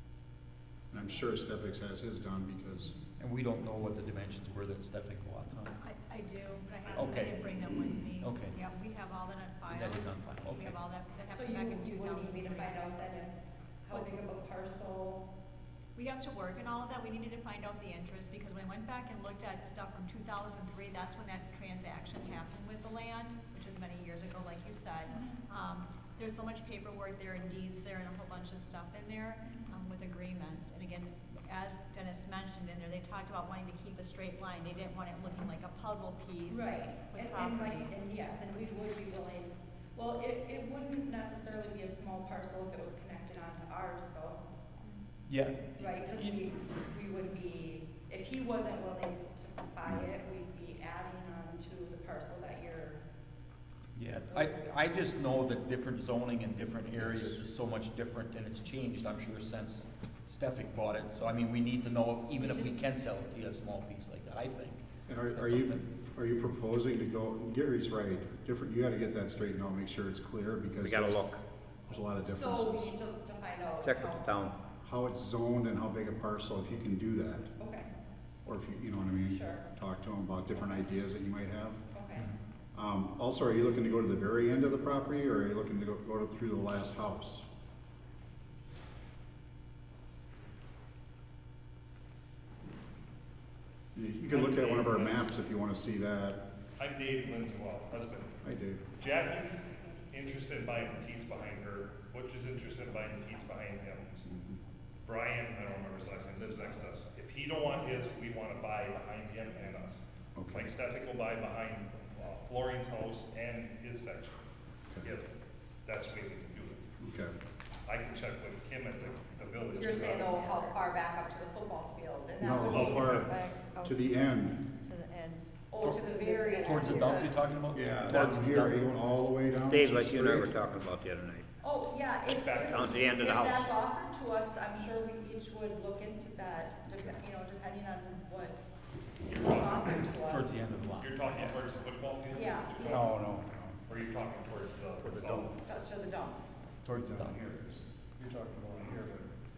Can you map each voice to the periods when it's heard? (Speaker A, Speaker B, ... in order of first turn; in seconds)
Speaker A: 0.9-3.0, 57.0-57.3, 65.1-71.2, 71.9-72.9, 74.8-77.5, 78.4-81.8, 82.7-87.5, 93.9-96.4, 98.4-98.8, 104.2-104.6, 110.3-110.7, 117.0-117.3, 122.4-124.6, 127.7-130.6, 136.9-137.1, 142.9-143.8, 145.0-145.5, 147.0-149.3
Speaker B: 3.2-5.8, 6.9-7.5, 8.2-8.7, 9.7-10.8, 45.3-46.4, 53.9-65.9, 125.8-128.9, 140.2-141.5, 146.8-147.4
Speaker C: 5.8-12.9, 13.9-14.2, 15.9-38.1
Speaker D: 11.3-15.2, 36.5-44.9, 45.8-53.0, 54.2-54.9, 62.4-62.7, 72.2-74.4, 77.6-77.9, 79.2-79.7, 81.9-82.3, 119.7-123.2, 125.7-127.4, 131.6-138.6, 139.3-140.5, 142.3-143.1, 145.6-146.4
Speaker E: 70.8-71.4, 73.8-74.6, 129.7-131.4, 132.4-133.7
Speaker F: 94.3-95.3, 96.8-98.4, 99.0-104.2, 105.0-114.4, 115.0-115.3, 115.8-116.8, 117.8-120.6, 122.7-123.3, 132.3-133.1, 139.2-139.9, 141.0-143.1, 143.9-145.6
Speaker G: 123.3-124.0, 124.9-127.1